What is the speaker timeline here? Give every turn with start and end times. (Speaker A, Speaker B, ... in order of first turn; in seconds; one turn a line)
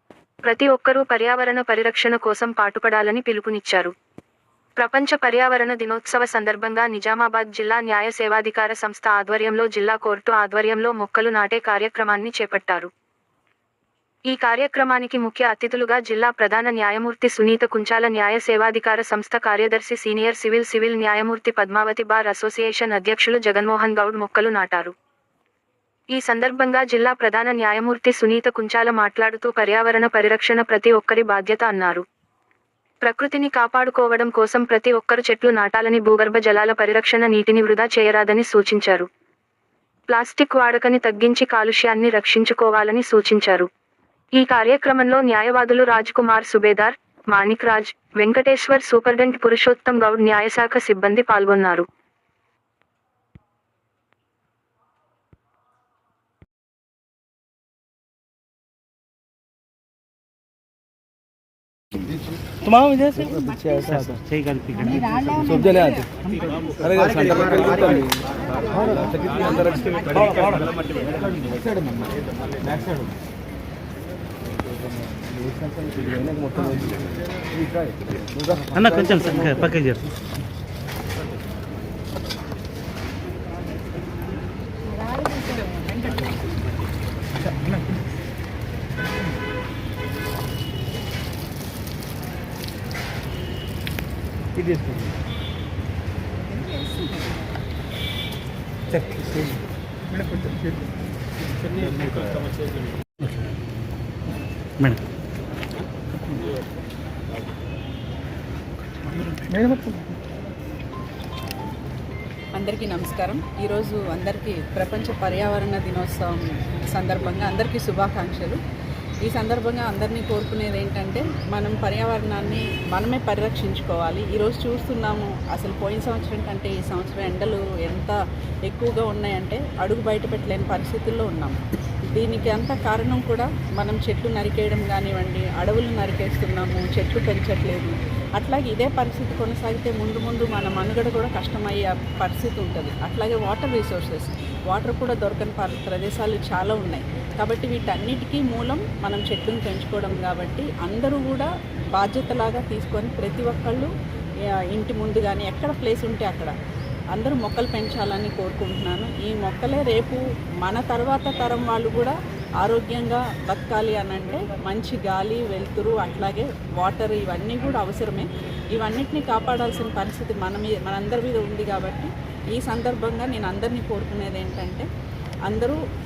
Speaker A: 0.4-3.9
Speaker A: 4.8-12.9
Speaker A: 14.3-24.9
Speaker A: 26.1-32.0
Speaker A: 33.0-39.1
Speaker A: 40.1-43.7
Speaker A: 44.4-51.9
Speaker B: 62.8-63.9
Speaker C: 62.9-63.2
Speaker C: 64.5-65.6
Speaker B: 65.5-66.1
Speaker B: 66.8-68.0
Speaker B: 68.9-69.8
Speaker C: 70.1-70.6
Speaker B: 75.8-76.9
Speaker C: 78.7-80.0
Speaker C: 85.2-85.6
Speaker B: 94.6-94.9
Speaker D: 112.5-118.6
Speaker D: 119.2-153.9
Speaker D: 154.7-156.6
Speaker D: 157.1-174.9
Speaker D: 175.5-175.8